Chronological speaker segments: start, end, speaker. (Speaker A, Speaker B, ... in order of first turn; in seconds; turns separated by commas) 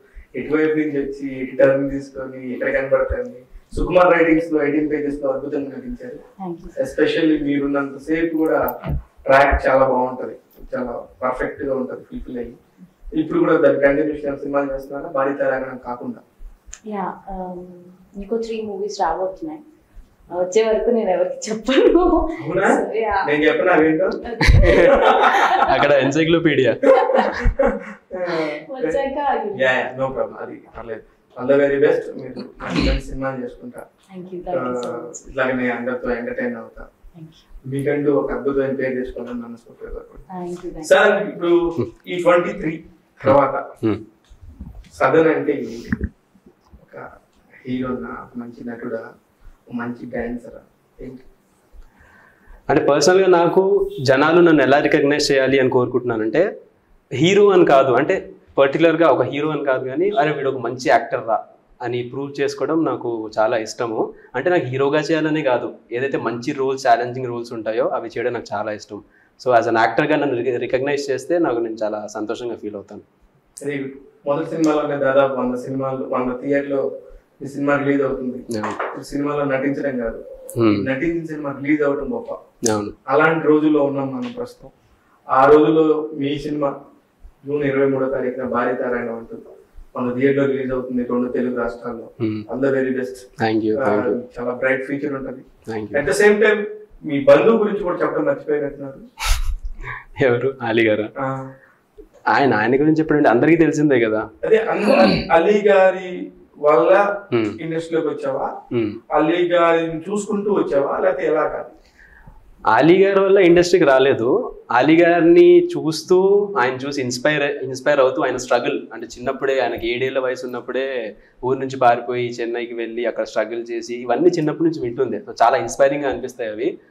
Speaker A: 0.4-6.2, Speaker B: 6.4-6.8, Speaker A: 6.8-8.6, Speaker A: 9.3-12.6, Speaker A: 13.2-16.2, Speaker B: 16.9-19.6, Speaker B: 20.3-23.3, Speaker A: 22.4-25.7, Speaker B: 24.2-26.0, Speaker C: 24.5-24.9, Speaker C: 25.6-26.9, Speaker B: 26.9-27.4, Speaker A: 26.9-29.0, Speaker B: 28.7-29.7, Speaker A: 29.5-33.9, Speaker B: 34.1-35.2, Speaker A: 34.5-36.9, Speaker B: 37.1-37.4, Speaker A: 37.6-40.3, Speaker B: 40.3-41.0, Speaker A: 40.8-43.6, Speaker C: 43.3-44.0, Speaker A: 45.0-46.0, Speaker A: 46.8-47.0, Speaker A: 47.6-49.1, Speaker A: 49.7-51.2, Speaker C: 52.7-56.5, Speaker C: 57.2-73.0, Speaker A: 73.6-76.8, Speaker A: 77.4-82.4, Speaker C: 78.5-78.8, Speaker C: 80.6-80.8, Speaker C: 82.7-83.0, Speaker A: 83.1-84.7, Speaker A: 85.3-86.7, Speaker A: 87.4-89.4, Speaker A: 90.0-99.1, Speaker C: 92.2-92.5, Speaker C: 93.4-94.2, Speaker C: 95.7-96.0, Speaker C: 100.2-101.1, Speaker A: 101.2-101.5, Speaker C: 102.3-104.3, Speaker A: 104.4-108.5, Speaker C: 104.9-105.2, Speaker C: 107.3-107.6, Speaker C: 108.7-109.0, Speaker A: 109.1-111.8, Speaker C: 112.7-120.9, Speaker C: 121.4-126.7